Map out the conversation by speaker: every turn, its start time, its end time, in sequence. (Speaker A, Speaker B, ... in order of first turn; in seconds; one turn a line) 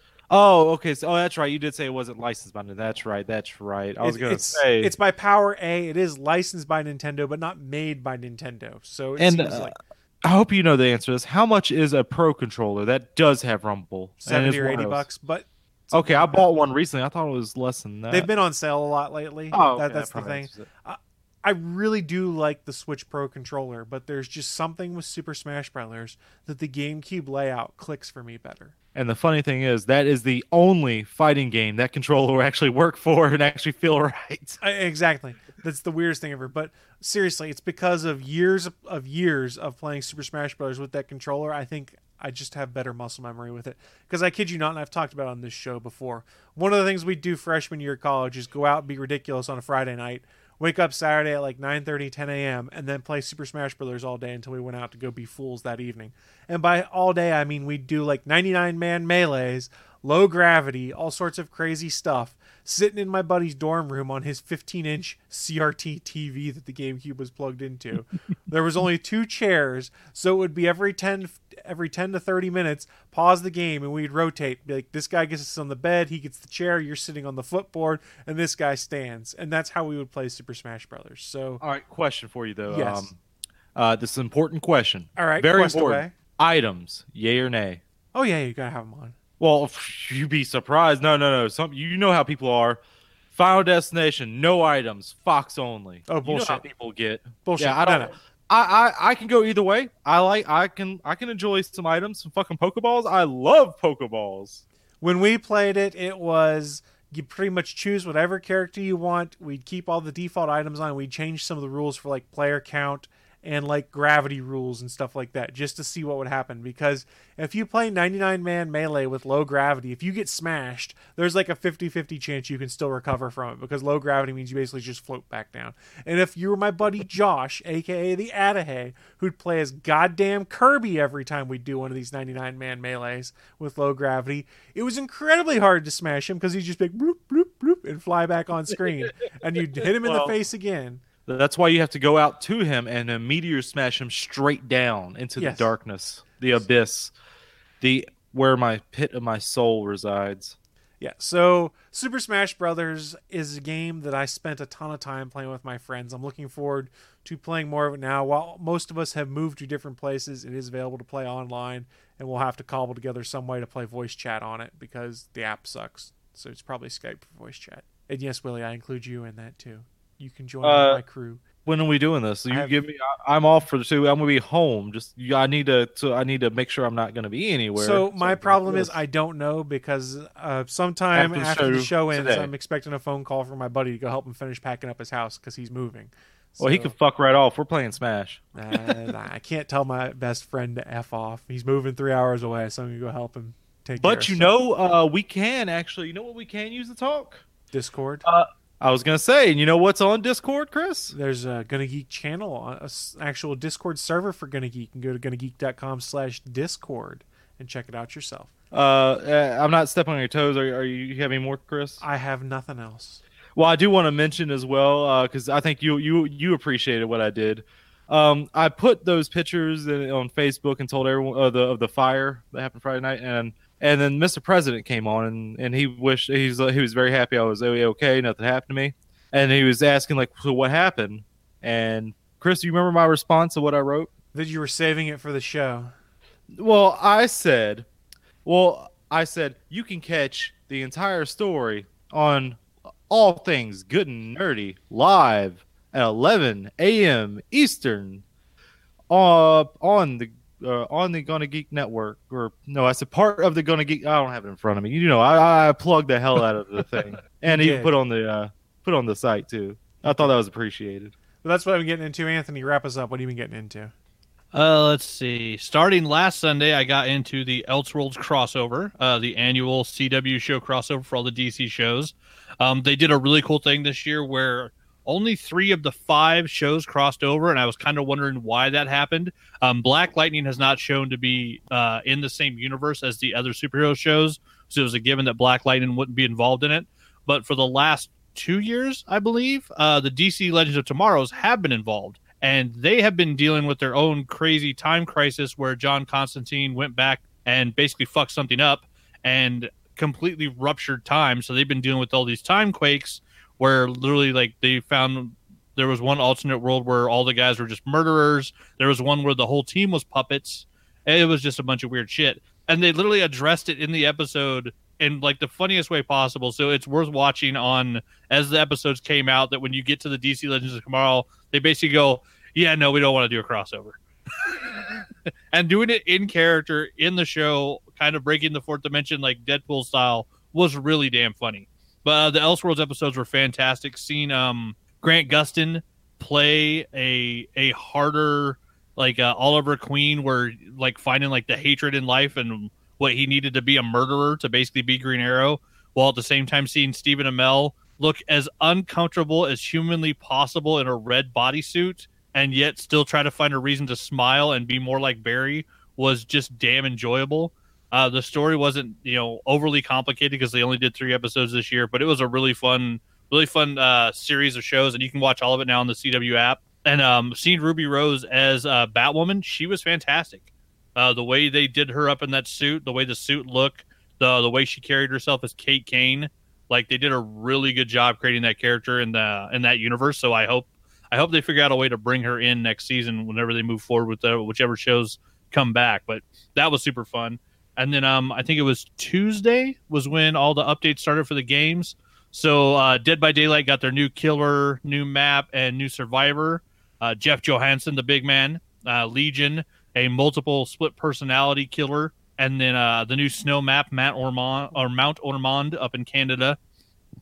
Speaker A: 0.3-4.9
Speaker B: 4.0-9.8
Speaker A: 9.2-15.1
Speaker B: 14.2-16.4
Speaker A: 15.9-18.3
Speaker B: 18.1-28.7
Speaker A: 19.5-20.7
Speaker A: 28.9-34.6
Speaker B: 34.6-81.6
Speaker A: 81.6-83.2
Speaker B: 82.7-83.1
Speaker A: 83.7-87.8
Speaker B: 85.2-86.1
Speaker B: 88.1-89.2
Speaker A: 89.4-92.8
Speaker A: 93.3-104.6
Speaker B: 96.1-96.6
Speaker B: 97.4-98.1
Speaker B: 105.0-141.0
Speaker A: 140.0-140.3
Speaker A: 141.3-147.1
Speaker B: 145.4-145.7
Speaker A: 147.8-150.6
Speaker B: 151.0-171.4
Speaker A: 170.6-171.0
Speaker A: 171.6-178.9
Speaker B: 172.5-172.8
Speaker B: 177.7-186.9
Speaker A: 181.1-182.5
Speaker A: 186.6-188.9
Speaker B: 188.6-194.5
Speaker A: 194.0-197.4
Speaker B: 197.7-198.2
Speaker A: 198.2-201.1
Speaker B: 201.1-208.5
Speaker A: 208.7-212.0
Speaker B: 212.0-213.2
Speaker A: 213.6-234.1
Speaker B: 234.3-235.9
Speaker A: 236.5-237.9
Speaker A: 238.4-248.2
Speaker A: 249.1-261.1
Speaker B: 257.4-257.9
Speaker B: 260.0-260.3
Speaker B: 261.4-263.9
Speaker C: 264.5-406.6